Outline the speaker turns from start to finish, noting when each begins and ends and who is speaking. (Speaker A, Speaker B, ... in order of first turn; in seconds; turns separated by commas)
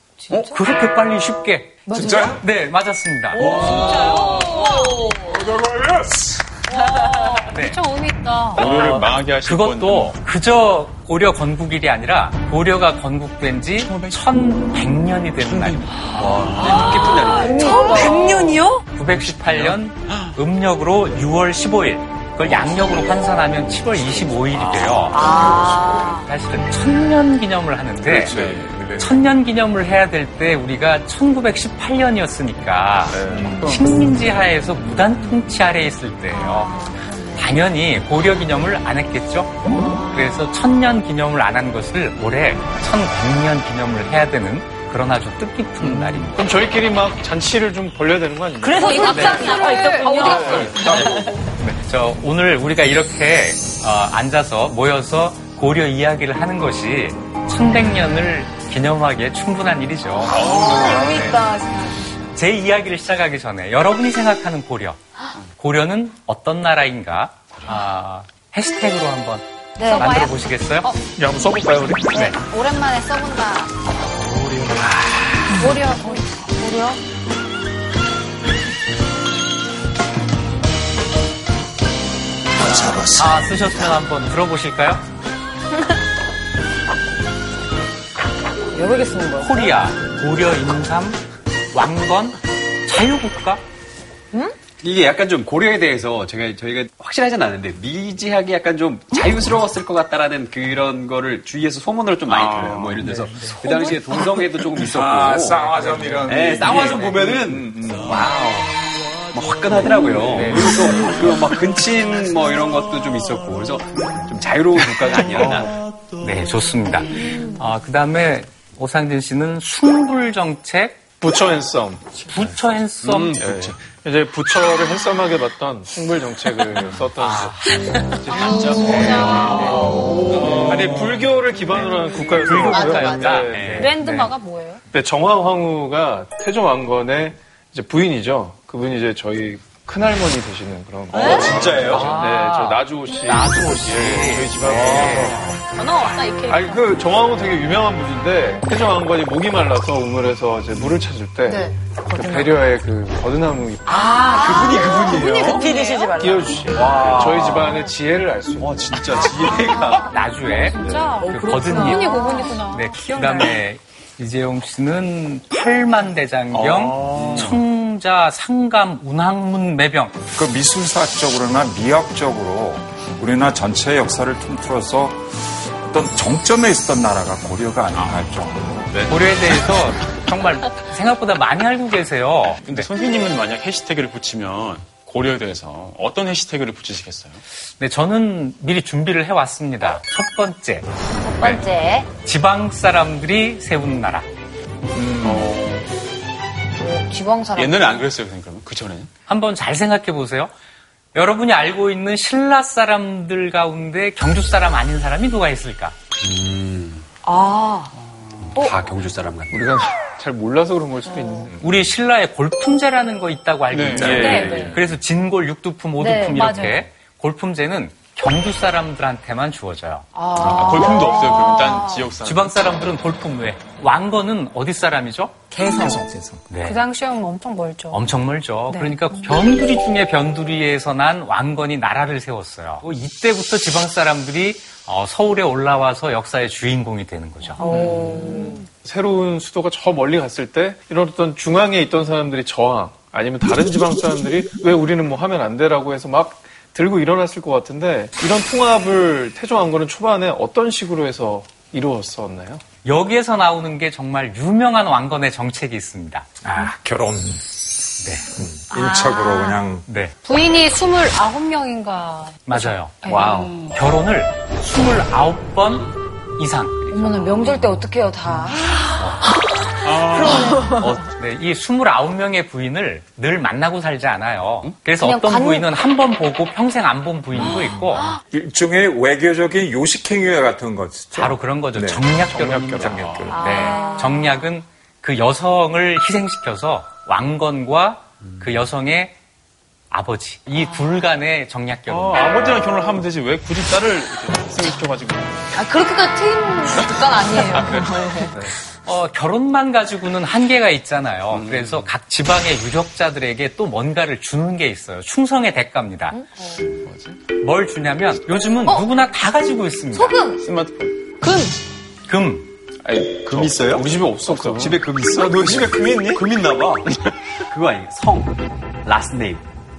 Speaker A: 0.3-4.4, Speaker B: 1.9-2.4, Speaker C: 1.9-2.4, Speaker C: 3.4-3.9, Speaker D: 3.4-5.3, Speaker E: 3.5-4.0, Speaker B: 3.6-5.1, Speaker C: 5.2-6.4, Speaker D: 6.7-8.6, Speaker A: 7.5-7.8, Speaker A: 8.5-15.9, Speaker F: 8.6-10.2, Speaker C: 8.6-9.0, Speaker F: 13.8-14.2, Speaker F: 15.4-17.6, Speaker G: 16.1-17.8, Speaker E: 16.7-18.7, Speaker B: 16.9-18.7, Speaker D: 17.0-18.8, Speaker A: 18.9-28.4, Speaker F: 19.1-20.4, Speaker F: 24.1-25.4, Speaker B: 25.1-26.3, Speaker E: 25.1-26.1, Speaker C: 28.1-29.2, Speaker F: 28.2-28.9, Speaker A: 28.9-46.4, Speaker F: 33.1-33.9, Speaker C: 33.3-33.7, Speaker B: 36.3-37.4, Speaker B: 39.7-40.4, Speaker H: 46.1-49.5, Speaker E: 48.6-51.4, Speaker D: 48.8-50.5, Speaker B: 48.8-51.0, Speaker H: 50.2-50.9, Speaker A: 50.3-61.4, Speaker F: 60.3-61.4, Speaker B: 60.3-62.0, Speaker A: 62.4-65.0, Speaker A: 65.6-70.9, Speaker F: 67.5-67.8, Speaker B: 69.8-71.0, Speaker H: 71.2-72.1, Speaker B: 72.1-73.8, Speaker F: 74.3-75.5, Speaker B: 75.5-77.0, Speaker D: 75.6-76.3, Speaker A: 82.8-85.0, Speaker E: 88.7-89.8, Speaker A: 89.4-91.2, Speaker A: 91.7-93.6, Speaker G: 94.8-115.8, Speaker F: 102.3-103.0, Speaker A: 103.1-103.5, Speaker B: 103.7-104.0, Speaker C: 104.8-108.3, Speaker A: 110.3-110.9, Speaker A: 116.2-121.0, Speaker H: 121.2-122.2, Speaker A: 122.3-123.4, Speaker G: 123.0-123.8, Speaker H: 123.4-133.9, Speaker A: 127.2-127.7, Speaker D: 128.3-130.3, Speaker B: 128.3-130.5, Speaker A: 128.6-130.9, Speaker F: 130.4-131.2, Speaker A: 132.3-134.3, Speaker B: 132.7-133.5, Speaker F: 133.6-133.9, Speaker D: 133.7-134.8, Speaker H: 134.9-145.6, Speaker G: 141.1-142.1, Speaker B: 141.2-141.5, Speaker A: 141.6-145.5, Speaker D: 145.7-146.9, Speaker H: 146.5-159.1, Speaker E: 152.1-152.6, Speaker B: 153.9-156.7, Speaker E: 154.1-156.3, Speaker G: 154.4-155.6, Speaker D: 155.6-156.2, Speaker G: 156.7-157.9, Speaker G: 158.6-160.1, Speaker F: 159.1-159.8, Speaker B: 159.3-160.2, Speaker A: 160.0-170.2, Speaker D: 160.4-163.6, Speaker E: 161.2-162.4, Speaker B: 161.9-162.6, Speaker F: 166.5-167.6, Speaker G: 167.1-167.4, Speaker C: 170.3-178.9, Speaker F: 178.0-178.3, Speaker F: 178.8-179.7, Speaker A: 179.1-182.9, Speaker F: 182.6-187.4, Speaker A: 187.8-191.6, Speaker B: 191.1-192.1, Speaker A: 192.2-194.3, Speaker C: 194.9-195.6, Speaker F: 195.2-195.9, Speaker B: 196.8-198.1, Speaker F: 197.6-199.1, Speaker A: 199.3-200.5, Speaker A: 201.1-205.9, Speaker G: 206.2-207.1, Speaker B: 207.2-207.9, Speaker F: 208.4-208.7, Speaker G: 208.5-209.7, Speaker B: 208.6-208.9, Speaker H: 209.5-211.6, Speaker B: 211.1-211.4, Speaker A: 211.6-220.1, Speaker F: 213.7-214.9, Speaker G: 213.9-214.7, Speaker D: 214.3-214.6, Speaker E: 214.3-214.7, Speaker B: 216.0-216.6, Speaker D: 216.0-216.8, Speaker B: 220.2-222.1, Speaker F: 220.3-222.6, Speaker A: 222.2-225.5, Speaker B: 225.5-226.1, Speaker A: 226.5-226.8, Speaker D: 226.6-228.1, Speaker A: 227.9-237.7, Speaker D: 228.7-229.3, Speaker E: 237.6-238.6, Speaker H: 237.7-238.3, Speaker B: 237.7-238.2, Speaker H: 238.8-252.6, Speaker A: 252.8-256.3, Speaker C: 256.4-257.6, Speaker A: 258.0-258.3, Speaker C: 258.3-259.9, Speaker D: 258.7-259.6, Speaker A: 259.9-260.1, Speaker D: 260.2-263.4, Speaker A: 262.5-263.1, Speaker G: 263.1-263.5, Speaker B: 263.1-263.6, Speaker F: 263.2-263.5, Speaker A: 263.7-267.2, Speaker B: 266.9-270.8, Speaker A: 268.9-269.4, Speaker F: 269.8-270.9, Speaker G: 270.8-271.0, Speaker A: 271.0-278.2, Speaker B: 275.0-275.7, Speaker C: 277.3-283.7, Speaker B: 277.4-278.2, Speaker A: 281.1-289.1, Speaker F: 282.3-283.4, Speaker B: 283.3-284.4, Speaker D: 283.7-284.0, Speaker A: 289.9-292.7, Speaker F: 291.9-295.6, Speaker B: 295.5-298.4, Speaker F: 296.8-298.0, Speaker A: 298.9-306.2, Speaker F: 301.3-301.9, Speaker B: 306.1-306.7, Speaker F: 306.8-307.2, Speaker A: 307.4-310.2, Speaker B: 308.7-308.9, Speaker B: 309.9-310.4, Speaker F: 310.4-311.0, Speaker D: 311.2-311.6, Speaker A: 312.1-312.5, Speaker F: 312.9-313.8, Speaker G: 313.1-317.0, Speaker H: 313.7-314.8, Speaker C: 315.2-316.2, Speaker G: 317.5-318.3, Speaker G: 318.9-319.4